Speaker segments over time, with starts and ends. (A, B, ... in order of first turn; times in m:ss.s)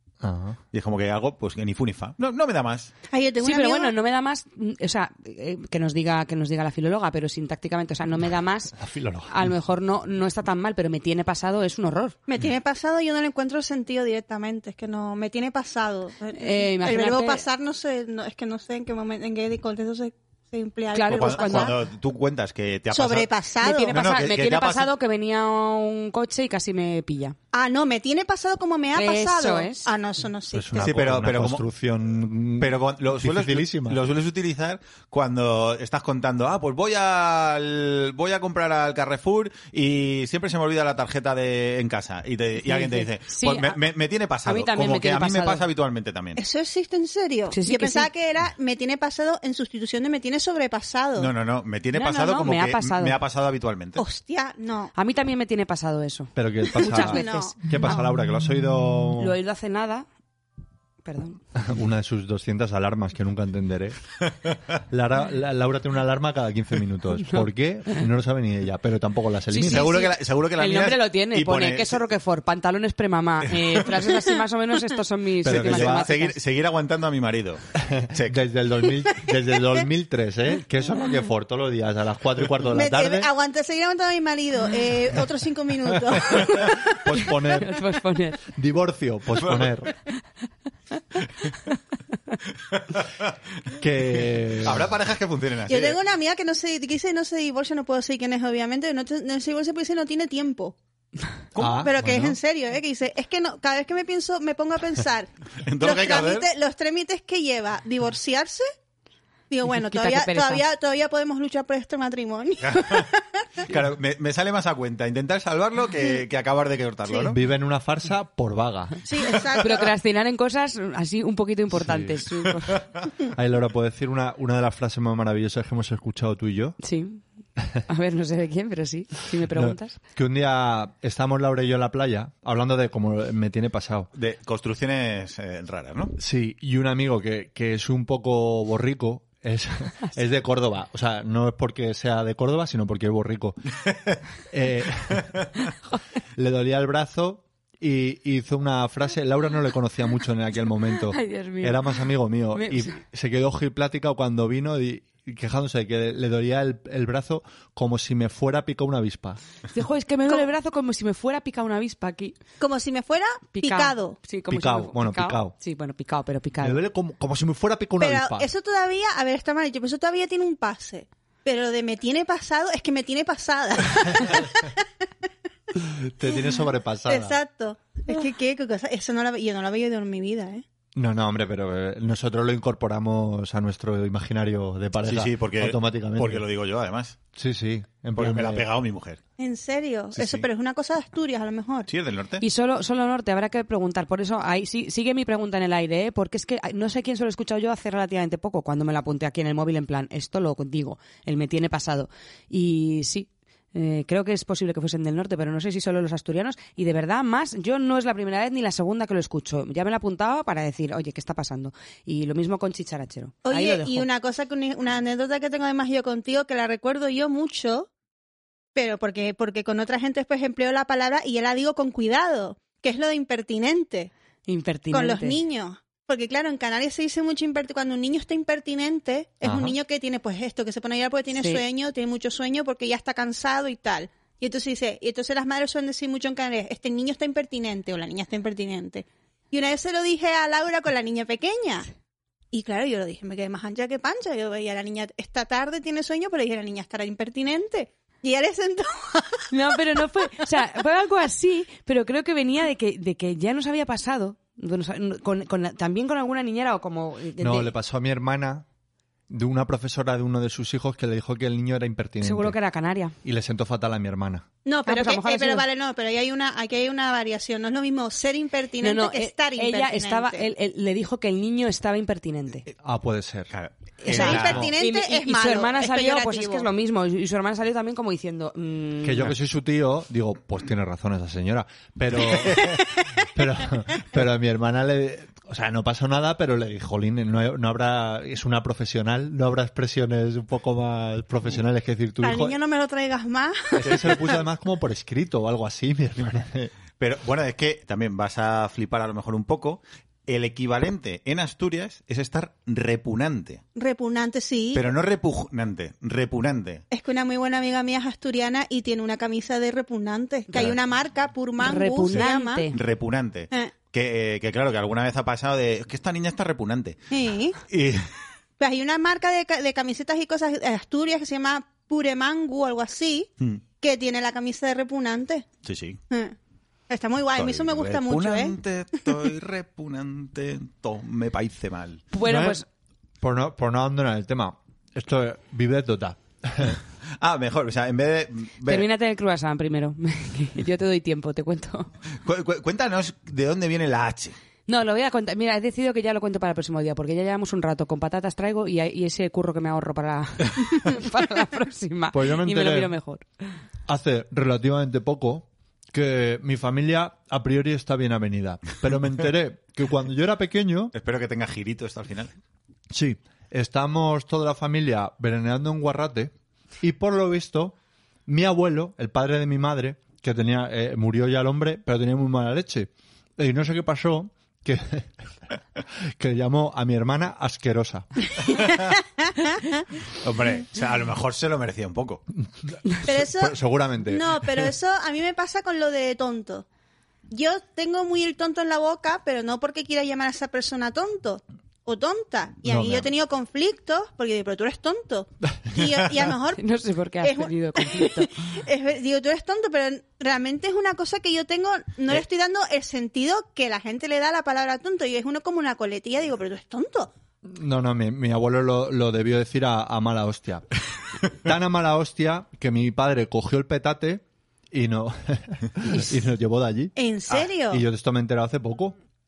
0:00.2-0:00.6 A
0:00.7-0:02.9 B
0:03.1-0:03.9 C
0:03.4-0:08.8 D
0:08.8-0:09.5 A
0:09.3-0:12.2 D
0:12.3-0:21.8 C
0:16.4-0:17.4 D
0:20.9-0:21.8 D
0:21.1-0:23.3 B
0:22.9-0:23.9 C
0:23.6-0:27.4 D
0:23.9-0:24.9 B
0:27.5-0:31.0 C
0:29.0-0:29.9 D
0:30.5-0:34.0 A
0:30.8-0:31.6 B
0:32.6-0:46.4 B
0:42.6-0:43.8 D
0:44.5-0:45.6 D
0:46.4-0:51.3 C
0:47.5-0:48.1 D
0:51.2-0:54.0 B
0:51.9-0:53.2 D
0:54.0-0:54.9 C
0:55.0-0:58.0 D
0:56.4-0:59.4 A
0:56.8-0:57.6 C
0:59.2-1:00.1 D
1:01.0-1:01.4 D
1:01.6-1:04.0 A
1:04.9-1:10.0 A
1:07.2-1:08.0 D
1:09.5-1:16.4 D
1:09.7-1:12.0 B
1:15.4-1:16.1 A
1:15.5-1:18.4 B
1:17.8-1:23.3 A
1:22.7-1:27.0 C
1:26.1-1:27.8 A
1:27.6-1:28.4 D
1:28.5-1:29.9 A
1:29.4-1:29.7 B
1:32.7-1:33.3 B
1:33.8-1:34.9 A
1:34.6-1:36.0 B
1:35.7-1:40.8 C
1:41.6-1:41.9 B
1:41.6-1:42.4 A
1:41.6-1:45.3 C
1:45.6-1:46.5 B
1:45.8-1:48.7 C
1:49.5-1:53.6 C
1:49.7-1:50.6 D
1:52.6-1:53.1 B
1:53.7-1:57.4 B
1:57.2-1:59.0 A
1:59.0-1:59.9 C
1:59.6-2:02.8 D
2:01.7-2:02.2 A
2:03.3-2:06.8 A
2:06.8-2:07.2 D
2:07.9-2:10.0 D
2:09.5-2:14.1 A
2:14.1-2:16.2 B
2:16.2-2:23.6 A
2:24.5-2:25.4 A
2:26.4-2:39.4 A
2:31.1-2:32.0 D
2:32.5-2:33.0 D
2:39.7-2:42.4 D
2:42.6-2:44.2 C
2:43.5-2:46.8 D
2:44.5-2:45.5 A
2:46.6-2:48.5 A
2:48.0-2:54.8 C
2:55.8-2:57.4 A
2:57.1-3:00.6 C
3:01.0-3:06.4 A
3:05.0-3:07.2 B
3:07.4-3:08.7 A
3:08.2-3:09.2 B
3:09.4-3:11.9 C
3:10.1-3:10.5 B
3:11.9-3:12.4 B
3:12.4-3:34.1 D
3:33.5-3:37.9 C
3:38.8-3:44.1 C
3:44.5-3:45.4 D
3:44.9-4:01.9 C
3:49.5-3:49.7 A
3:51.3-3:51.6 D
4:02.5-4:09.4 C
4:09.5-4:17.7 D
4:17.4-4:18.6 A
4:19.3-4:22.6 A
4:22.2-4:23.1 D
4:23.2-4:24.5 A
4:24.6-4:30.5 C
4:24.9-4:25.6 D
4:28.8-4:32.7 D
4:32.7-4:33.5 A
4:33.5-4:34.7 B
4:34.0-4:39.3 D
4:34.1-4:36.7 C
4:34.1-4:34.7 A
4:39.0-4:52.6 A
4:42.3-4:42.7 B
4:52.2-4:54.4 C
4:53.8-4:56.7 A
4:53.8-4:54.1 B
4:57.0-5:03.6 B
5:03.8-5:04.9 C
5:04.7-5:06.8 B
5:06.9-5:12.7 C
5:11.6-5:12.8 D
5:12.1-5:17.0 B
5:17.1-5:17.6 C
5:17.7-5:18.1 B
5:18.6-5:23.3 C
5:23.8-5:25.5 C
5:25.6-5:26.0 B
5:26.9-5:28.6 C
5:27.4-5:32.0 B
5:32.1-5:32.7 D
5:32.2-5:32.6 A
5:33.2-5:36.8 A
5:37.2-5:38.9 B
5:38.6-5:41.9 D
5:42.2-5:44.4 B
5:44.7-5:53.3 D
5:52.1-5:52.9 A
5:53.9-6:00.9 A
6:00.9-6:02.3 B
6:02.9-6:15.3 A
6:16.1-6:18.3 A
6:19.2-6:19.7 C
6:20.2-6:22.2 B
6:22.7-6:24.7 A
6:23.0-6:26.7 C
6:27.3-6:36.6 C
6:32.6-6:33.1 A
6:36.6-6:38.3 D
6:37.2-6:47.1 C
6:47.5-6:50.6 A
6:51.3-6:56.9 A
6:57.0-6:57.8 C
6:57.6-6:59.0 A